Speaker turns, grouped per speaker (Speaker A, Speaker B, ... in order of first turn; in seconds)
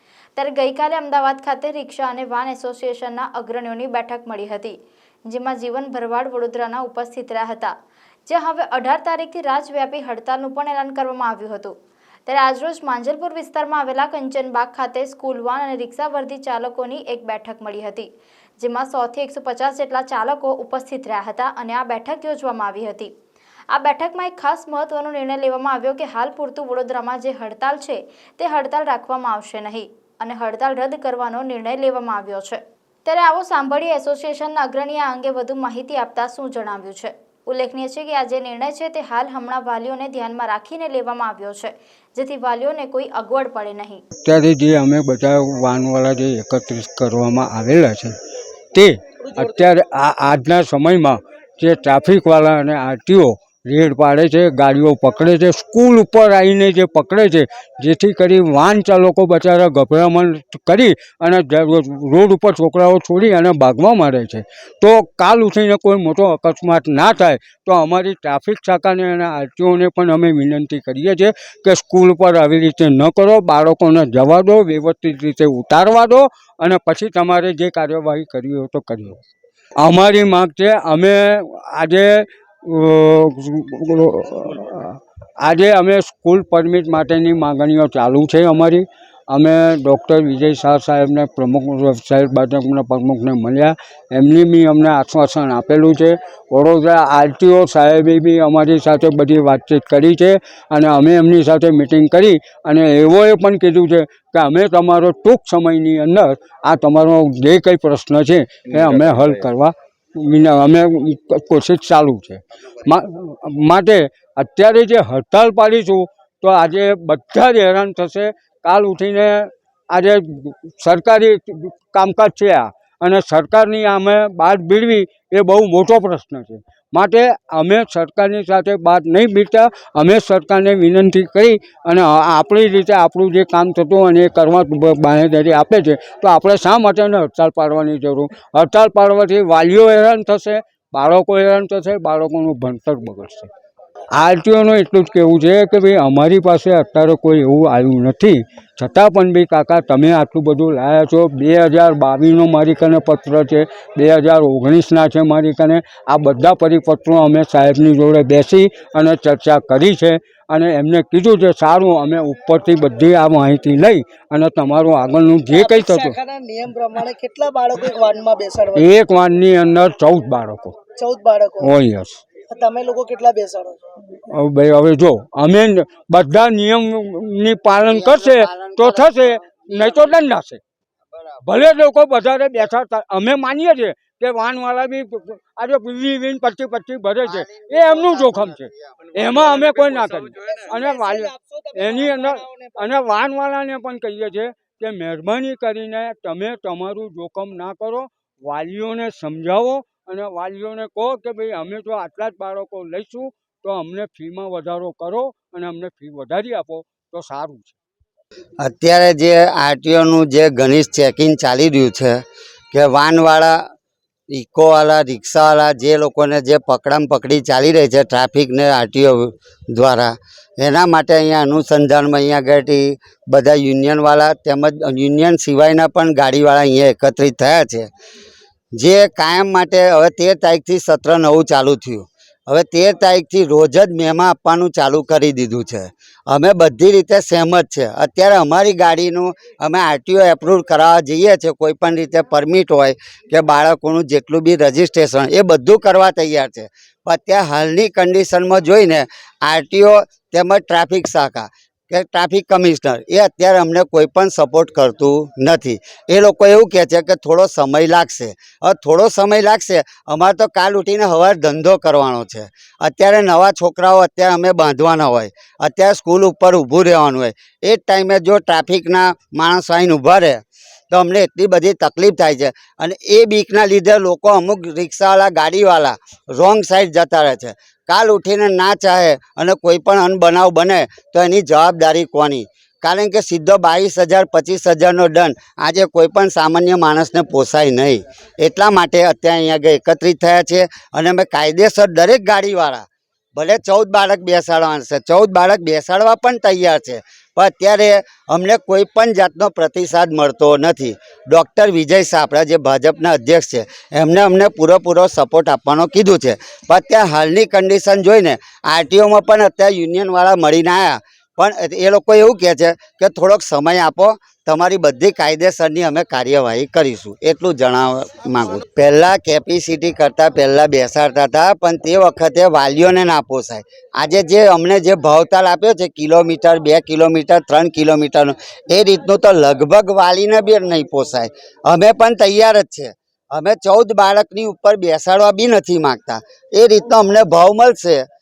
Speaker A: 0.4-4.8, 5.3-7.7, 8.3-11.8, 12.3-18.1, 18.6-23.1, 23.7-44.0
Speaker B: 44.2-48.1, 48.7-79.2, 79.8-143.5, 144.1-166.2, 168.8-170.8, 171.6-172.2, 174.3-180.6, 181.4-207.8
Speaker C: 49.3-49.6, 165.5-168.9, 171.0-171.7, 172.5-173.8, 189.3-192.8
Speaker D: 177.8-180.1, 181.1-181.4, 187.2-189.2, 208.6-213.6, 214.3-227.9, 228.8-338.1